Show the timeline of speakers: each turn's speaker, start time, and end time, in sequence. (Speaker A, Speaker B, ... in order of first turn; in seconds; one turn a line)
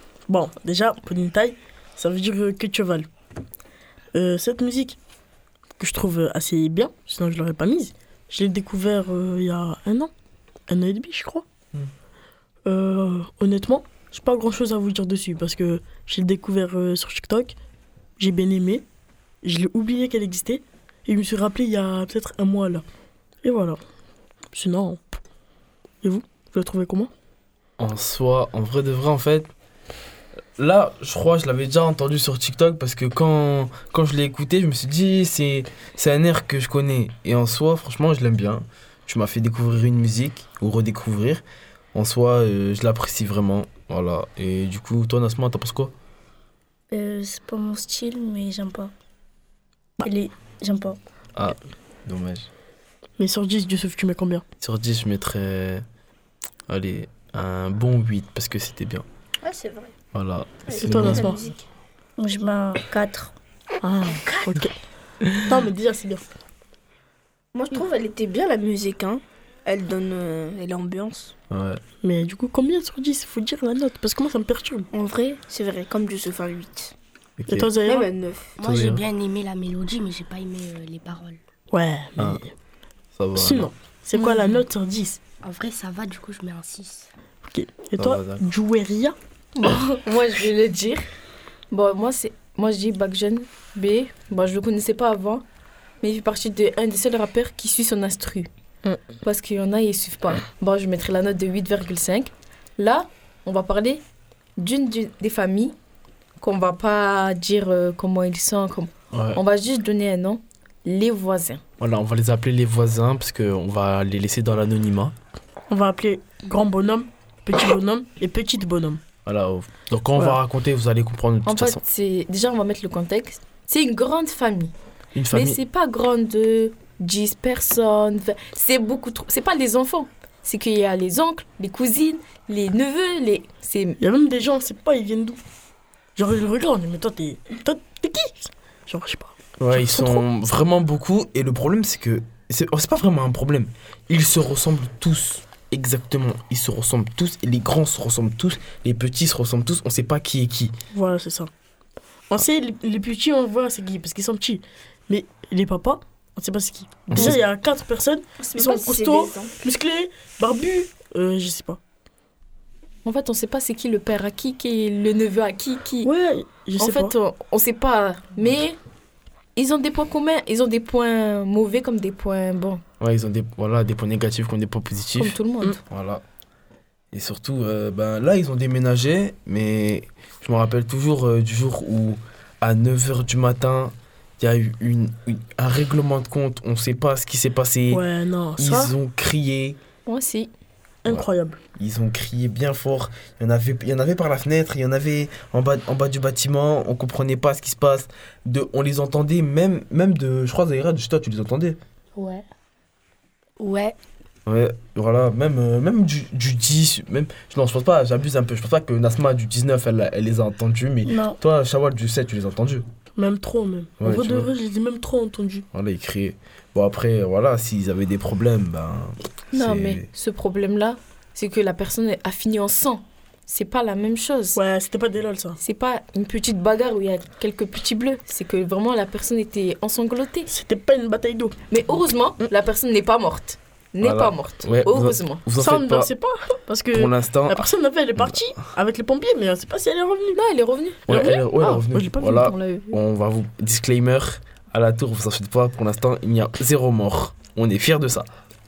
Speaker A: 0.3-3.1
Speaker A: 4.1-5.0
Speaker A: 5.8-10.1
Speaker A: 10.7-11.4
Speaker A: 12.7-17.6
Speaker A: 18.2-18.8
Speaker A: 19.4-22.8
Speaker A: 23.4-23.8
Speaker A: 24.5-25.2
Speaker A: 26.0-27.1
Speaker B: 27.8-29.5
Speaker B: 30.6-41.4
Speaker B: 41.9-45.9
Speaker C: 46.9-48.9
Speaker C: 50.0-51.0
Speaker B: 51.4-52.5
Speaker A: 53.2-54.4
Speaker B: 54.6-55.8
Speaker B: 56.7-59.0
Speaker D: 59.5-59.9
Speaker B: 60.1-61.4
Speaker A: 60.8-61.4
Speaker C: 62.2-63.3
Speaker A: 63.8-64.7
Speaker A: 65.5-66.3
Speaker D: 67.5-71.3
Speaker B: 71.5-71.8
Speaker A: 72.0-74.9
Speaker D: 74.9-76.9
Speaker B: 77.4-77.7
Speaker A: 77.5-78.1
Speaker D: 77.8-78.6
Speaker E: 78.6-81.4
Speaker B: 78.6-79.0
Speaker A: 81.7-82.5
Speaker B: 83.1-83.7
Speaker A: 83.3-85.2
Speaker F: 84.1-84.5
Speaker E: 85.4-87.1
Speaker A: 87.4-89.2
Speaker B: 88.0-88.5
Speaker F: 89.5-91.0
Speaker F: 91.7-95.4
Speaker F: 96.0-98.5
Speaker F: 99.2-104.0
Speaker F: 104.6-105.7
Speaker F: 106.4-111.6
Speaker B: 109.1-109.4
Speaker B: 111.8-115.1
Speaker A: 115.7-119.0
Speaker B: 119.2-121.8
Speaker F: 121.5-124.7
Speaker B: 125.1-125.6
Speaker F: 125.3-134.0
Speaker A: 134.0-135.4
Speaker A: 136.2-140.2
Speaker B: 139.6-150.7
Speaker A: 150.9-151.5
Speaker A: 152.3-161.8
Speaker B: 157.1-157.4
Speaker D: 158.4-159.5
Speaker F: 163.0-166.1
Speaker A: 166.0-167.1
Speaker F: 166.8-168.8
Speaker F: 169.6-172.8
Speaker B: 173.0-176.2
Speaker F: 175.2-175.8
Speaker B: 177.1-188.0
Speaker A: 187.9-188.9
Speaker B: 188.6-189.8
Speaker F: 190.1-190.5
Speaker A: 191.0-191.6
Speaker B: 191.1-201.8
Speaker E: 202.2-202.4
Speaker E: 203.6-203.9
Speaker B: 204.4-212.8
Speaker C: 211.0-211.4
Speaker A: 213.2-215.7
Speaker B: 214.0-214.5
Speaker B: 215.7-220.1
Speaker F: 219.5-224.6
Speaker A: 224.5-225.6
Speaker F: 225.6-230.5
Speaker A: 230.5-231.6
Speaker F: 231.7-235.4
Speaker B: 234.0-236.1
Speaker A: 235.6-240.4
Speaker B: 236.9-238.5
Speaker F: 240.3-243.0
Speaker B: 241.1-248.3
Speaker A: 241.1-242.5